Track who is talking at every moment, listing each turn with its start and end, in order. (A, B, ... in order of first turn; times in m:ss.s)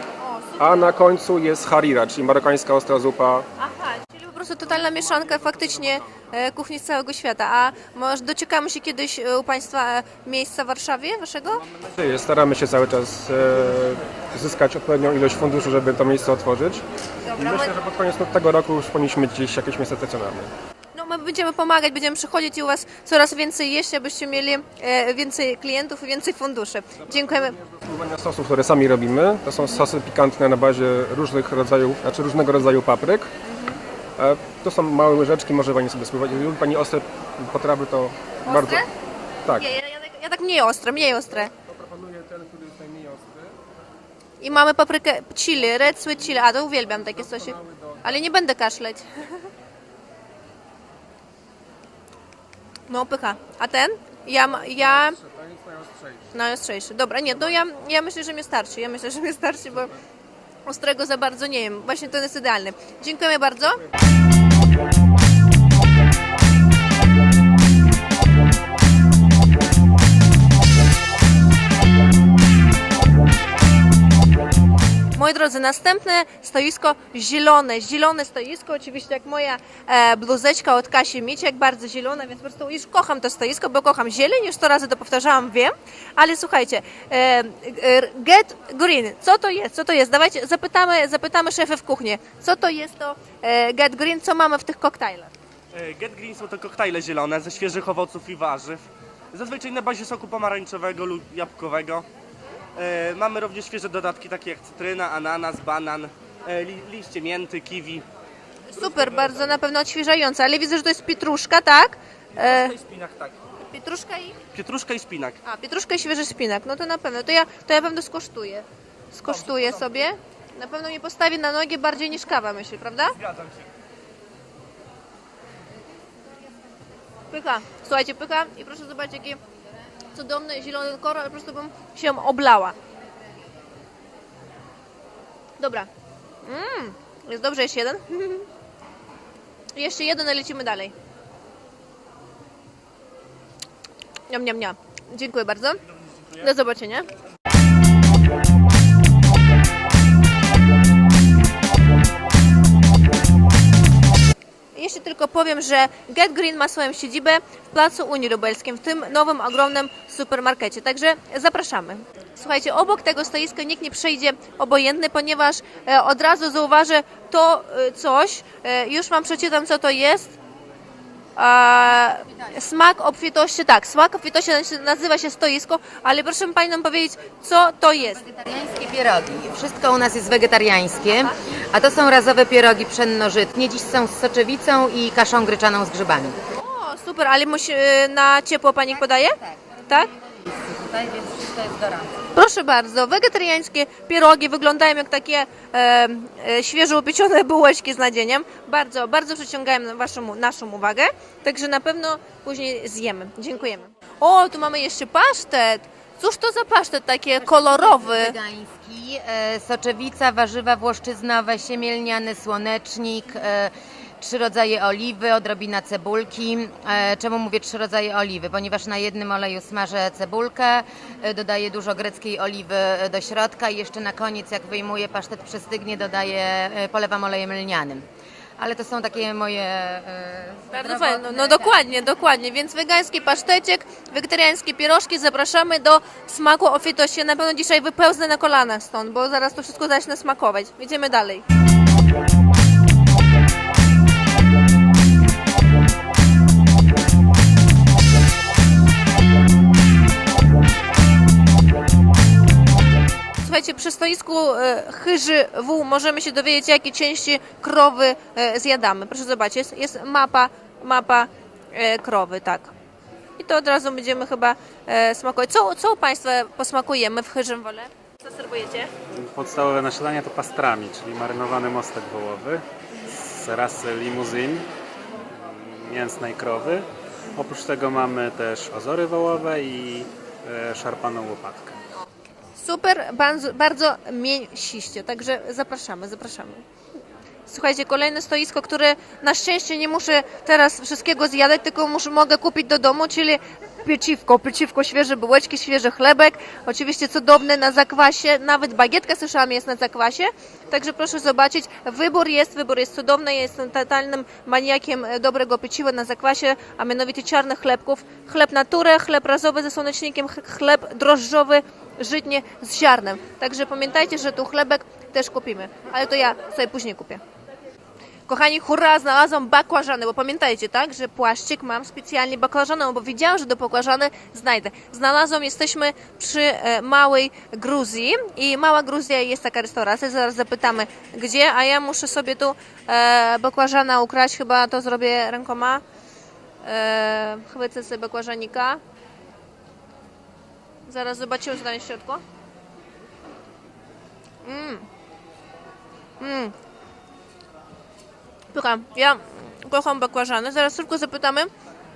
0:00.2-0:00.9 A
0:00.6-0:03.4 B
0:03.6-0:11.6 A
0:11.7-0:16.8 B
0:17.2-0:17.7 A
0:17.4-0:20.5 B
0:20.9-0:27.6 A
0:27.6-0:33.3 B
0:33.4-0:33.8 A
0:34.2-0:38.8 B
0:38.4-0:38.9 A
0:39.5-0:41.5 A
0:41.8-0:43.4 B
0:44.4-0:49.5 A
0:52.9-0:55.2 A
0:55.4-0:56.0 B
0:56.3-0:59.9 A
1:00.6-1:03.8 A
1:15.1-1:35.3 A
1:35.7-1:42.0 C
1:42.8-1:48.0 C
1:48.7-1:52.8 A
1:48.8-1:49.4 C
1:52.4-1:53.4 C
1:53.6-1:54.4 A
1:54.5-1:55.4 C
1:55.4-2:03.2 A
1:59.2-1:59.9 C
2:03.2-2:03.6 C
2:07.3-2:09.4 A
2:10.1-2:12.8 A
2:15.6-2:15.9 A
2:16.4-2:18.5 A
2:19.8-2:20.9 A
2:24.3-2:25.8 A
2:26.4-2:27.1 A
2:34.8-2:50.3 A
2:51.4-2:58.2 A
2:58.2-3:06.4 D
3:06.5-3:10.1 A
3:10.2-3:12.1 D
3:12.4-3:28.4 A
3:27.4-3:48.0 D
3:48.6-3:51.7 D
3:50.7-4:01.4 A
4:13.4-4:22.7 A
4:23.4-4:28.9 A
4:29.1-4:34.7 E
4:35.4-4:41.8 E
4:42.6-4:46.6 A
4:47.5-5:17.2 A
5:18.3-5:35.8 A
5:36.6-5:38.8 A
5:40.9-5:42.2 A
5:44.4-5:44.9 A
5:46.2-5:46.5 A
5:48.5-5:51.5 A